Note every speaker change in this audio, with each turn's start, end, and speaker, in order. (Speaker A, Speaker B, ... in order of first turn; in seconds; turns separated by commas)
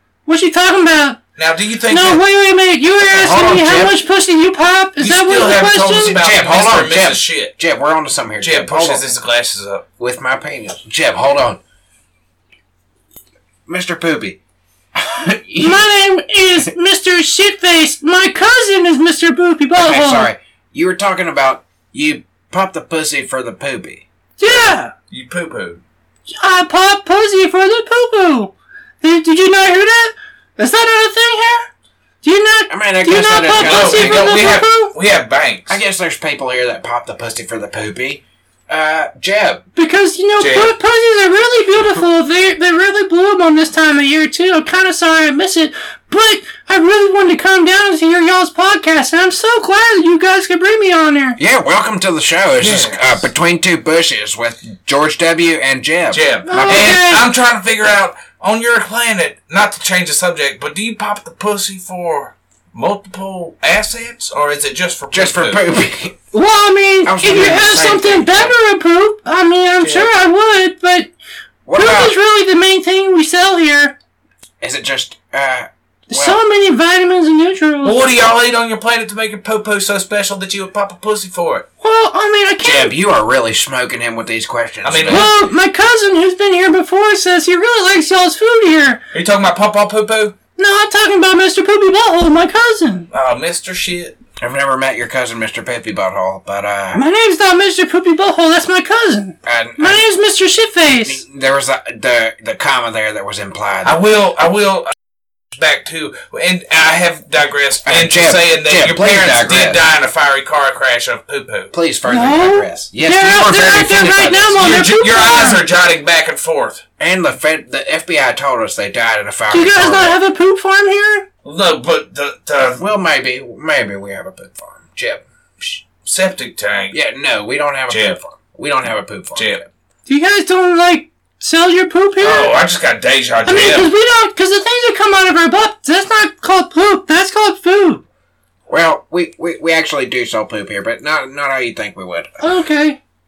Speaker A: 0.3-1.2, Speaker B: 1.4-2.2, Speaker A: 1.9-6.2, Speaker C: 3.0-4.0, Speaker B: 5.0-7.5, Speaker C: 6.1-9.1, Speaker B: 8.4-9.8, Speaker C: 10.0-11.6, Speaker C: 13.7-14.4, Speaker C: 15.0-15.9, Speaker A: 15.6-20.3, Speaker C: 19.7-24.1, Speaker A: 24.4-24.9, Speaker B: 25.1-25.8, Speaker A: 26.3-31.7, Speaker A: 32.2-34.9, Speaker C: 32.7-34.4, Speaker B: 33.6-35.8, Speaker C: 35.7-39.6, Speaker A: 39.8-51.4, Speaker B: 40.4-40.8, Speaker C: 51.4-57.1, Speaker B: 52.6-53.3, Speaker B: 56.1-65.6, Speaker A: 56.5-57.3, Speaker C: 65.1-66.2, Speaker A: 66.3-71.1, Speaker C: 67.0-68.5, Speaker B: 69.8-70.1, Speaker C: 71.7-72.2, Speaker A: 71.7-74.0, Speaker C: 74.6-76.4, Speaker A: 76.1-78.0, Speaker B: 77.8-81.7, Speaker A: 81.8-83.0, Speaker C: 82.6-85.3, Speaker B: 84.8-85.3, Speaker A: 85.1-89.0, Speaker B: 89.1-90.4, Speaker A: 90.6-93.1, Speaker B: 93.1-94.2, Speaker C: 94.4-97.0, Speaker A: 96.9-101.2, Speaker C: 99.5-100.1, Speaker C: 100.9-104.0, Speaker B: 103.8-104.9, Speaker B: 105.5-111.7, Speaker C: 107.8-109.8, Speaker C: 111.7-114.7, Speaker A: 112.1-115.6, Speaker B: 114.6-116.8, Speaker C: 117.0-120.2, Speaker A: 119.5-121.3, Speaker B: 121.4-122.8, Speaker C: 122.8-125.8, Speaker B: 125.8-127.0, Speaker C: 126.9-129.6, Speaker B: 127.9-128.2, Speaker B: 129.3-129.7, Speaker A: 130.1-132.6, Speaker B: 132.2-133.9, Speaker A: 133.4-138.0, Speaker C: 138.7-142.3, Speaker A: 142.4-143.0